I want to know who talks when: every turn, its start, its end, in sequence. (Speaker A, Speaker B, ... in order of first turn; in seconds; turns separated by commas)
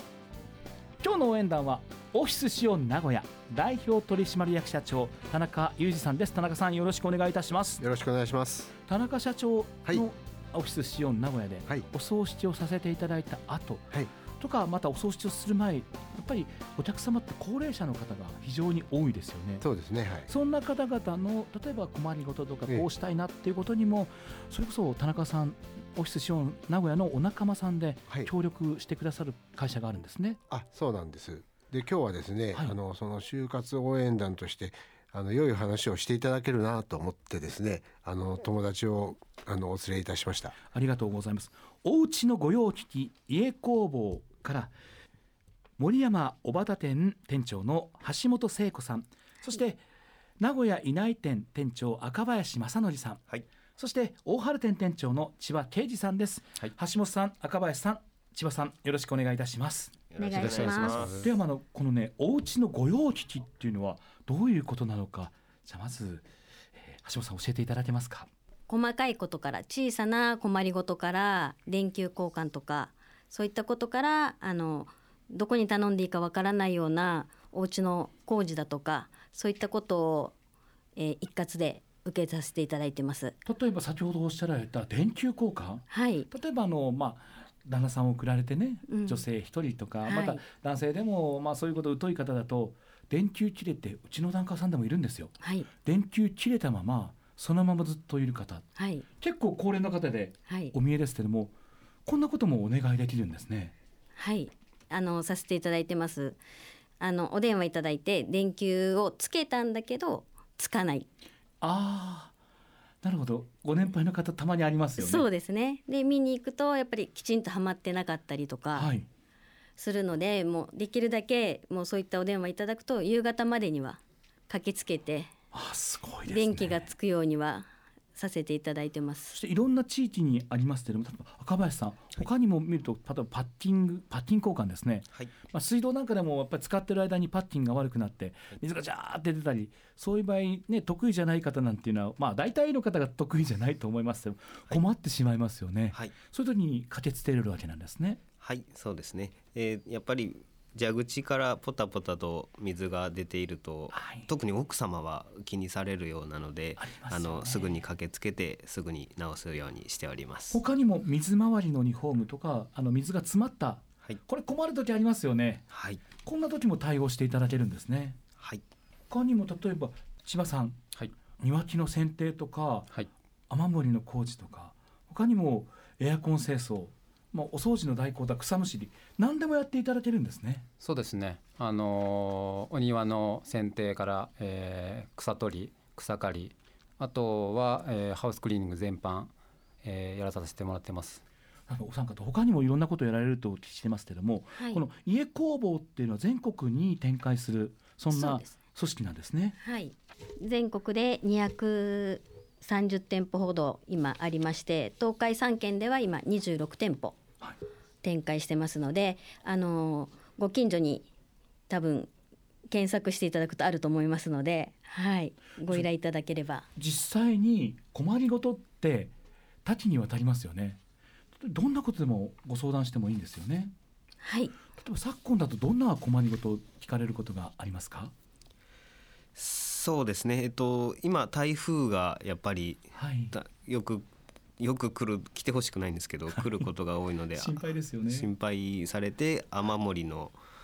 Speaker A: 1.0-7.8, Speaker B: 7.8-8.7, Speaker A: 8.9-19.6, Speaker B: 19.6-20.3, Speaker C: 20.0-20.2, Speaker A: 20.3-30.4, Speaker B: 30.5-40.6, Speaker C: 31.5-31.7, Speaker A: 40.6-44.7, Speaker A: 45.8-49.8, Speaker A: 50.4-53.2, Speaker A: 53.8-68.3, Speaker C: 60.1-61.3, Speaker D: 60.2-61.1, Speaker E: 60.4-61.2, Speaker D: 68.7-80.3, Speaker D: 81.0-83.4, Speaker A: 83.5-98.7, Speaker D: 85.9-86.3, Speaker D: 88.9-89.2, Speaker D: 90.0-90.4, Speaker D: 95.4-95.7, Speaker D: 98.8-99.1, Speaker A: 99.2-101.5, Speaker D: 100.5-100.7, Speaker A: 102.1-103.8, Speaker D: 104.2-106.4, Speaker D: 107.0-111.1, Speaker A: 111.6-112.3, Speaker A: 113.0-115.2, Speaker D: 115.0-118.9, Speaker A: 118.7-119.1, Speaker D: 119.8-125.3, Speaker A: 125.5-126.9, Speaker D: 126.3-129.4, Speaker A: 129.3-148.2, Speaker C: 148.4-160.6, Speaker A: 153.9-154.3, Speaker A: 156.8-157.8, Speaker A: 160.5-168.2, Speaker C: 165.7-166.0, Speaker A: 169.1-170.8, Speaker A: 171.4-172.9, Speaker A: 173.5-180.7, Speaker E: 180.8-191.2, Speaker A: 191.7-199.6, Speaker D: 194.6-194.8, Speaker D: 198.1-198.6, Speaker D: 199.6-207.2, Speaker D: 208.0-211.1, Speaker D: 211.7-212.1, Speaker D: 212.7-216.7, Speaker A: 216.8-219.1, Speaker A: 219.7-220.8, Speaker A: 221.4-223.7, Speaker D: 224.2-224.6, Speaker A: 224.8-228.1, Speaker C: 229.4-234.1, Speaker A: 232.9-233.3, Speaker C: 234.6-240.3, Speaker A: 237.4-238.3